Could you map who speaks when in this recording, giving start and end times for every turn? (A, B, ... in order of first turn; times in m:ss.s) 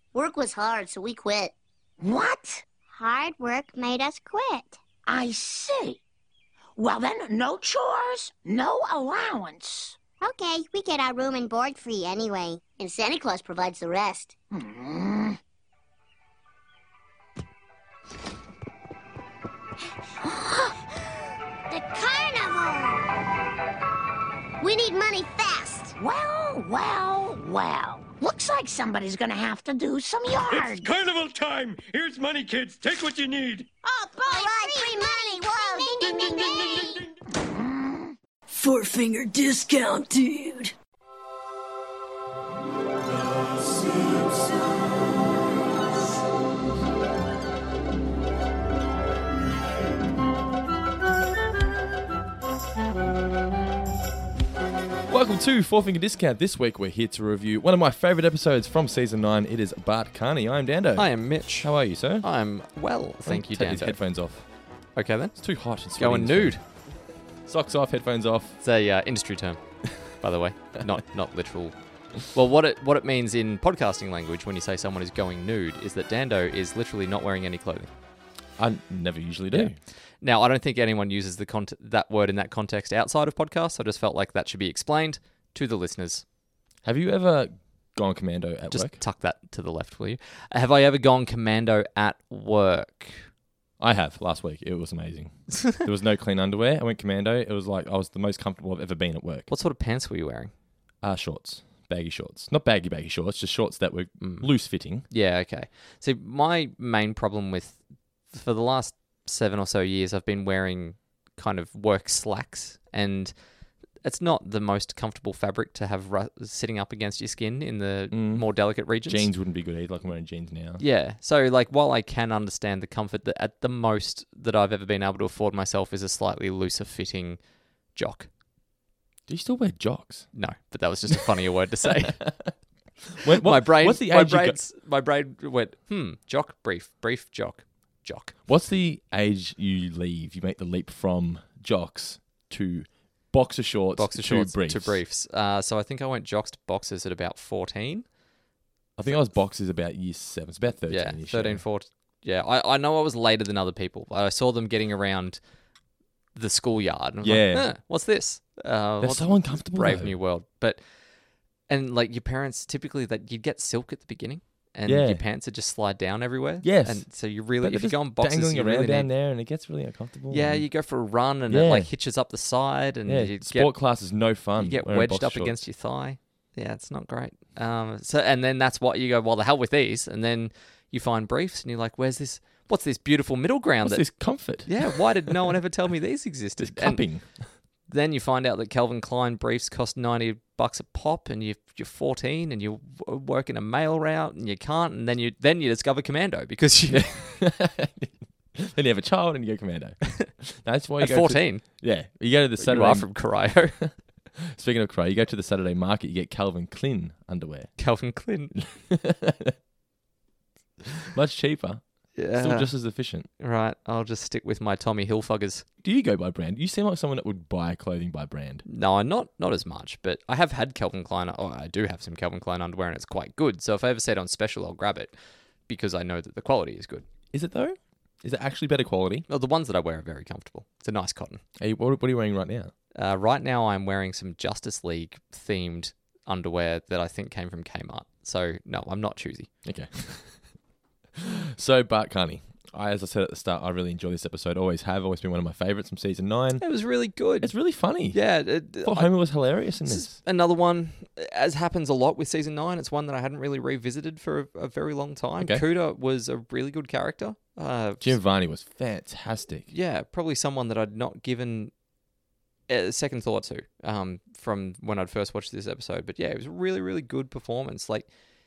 0:00.1-0:01.5 A
0:02.0-0:02.6 B
0:02.9-0:04.8 A
0:05.1-0:06.0 B
0:06.8-0:10.0 B
0:10.2-0:14.3 A
0:14.5-0:15.4 B
0:20.2-0:20.8 B
0:21.7-0:23.0 A
0:24.6-0:26.0 A
0:26.0-0:30.9 B
0:30.5-0:33.7 C
0:33.8-0:38.2 B
0:34.3-0:36.9 A
0:38.5-0:40.7 D
0:55.1-1:02.3 E
1:01.0-1:04.0 F
1:03.3-1:04.5 E
1:05.0-1:06.6 F
1:05.4-1:06.6 E
1:07.5-1:08.6 E
1:08.6-1:17.9 F
1:18.6-1:19.8 E
1:19.5-1:26.2 F
1:26.8-1:29.0 E
1:28.7-1:33.3 F
1:33.8-1:39.5 E
1:39.5-1:40.5 F
1:41.0-1:45.1 E
1:44.2-1:53.4 F
1:54.0-1:59.3 F
1:58.1-2:00.8 E
2:00.8-2:07.4 F
2:07.9-2:08.3 F
2:09.3-2:10.3 E
2:10.3-2:12.3 F
2:12.0-2:12.5 E
2:13.1-2:14.6 E
2:13.3-2:18.4 F
2:18.5-2:25.0 E
2:24.0-2:28.1 F
2:29.0-2:31.6 E
2:30.9-2:35.4 F
2:36.4-2:40.8 F
2:37.2-2:37.7 E
2:39.0-2:40.2 E
2:41.7-2:49.1 F
2:44.9-2:45.2 E
2:46.6-2:50.7 E
2:50.3-2:53.8 F
2:51.5-2:51.9 E
2:53.1-2:55.6 E
2:54.6-3:07.0 F
3:03.8-3:05.6 E
3:06.6-3:07.5 E
3:07.9-3:17.2 F
3:16.9-3:27.7 E
3:21.0-3:21.8 F
3:22.6-3:23.8 F
3:27.8-3:28.6 F
3:28.6-3:29.6 E
3:31.0-3:33.3 E
3:32.2-3:32.8 F
3:33.4-3:35.6 F
3:35.8-3:38.6 E
3:38.7-3:45.1 F
3:45.7-3:47.0 F
3:47.3-3:49.3 E
3:49.3-3:51.4 F
3:51.6-3:52.7 E
3:53.0-3:59.5 F
3:59.6-4:00.5 E
4:01.2-4:06.6 E
4:06.6-4:07.5 F
4:07.4-4:08.2 E
4:08.1-4:09.2 F
4:08.8-4:10.2 E
4:09.9-4:18.2 F
4:15.4-4:15.6 E
4:18.0-4:19.7 E
4:19.7-4:21.7 F
4:22.7-4:28.1 F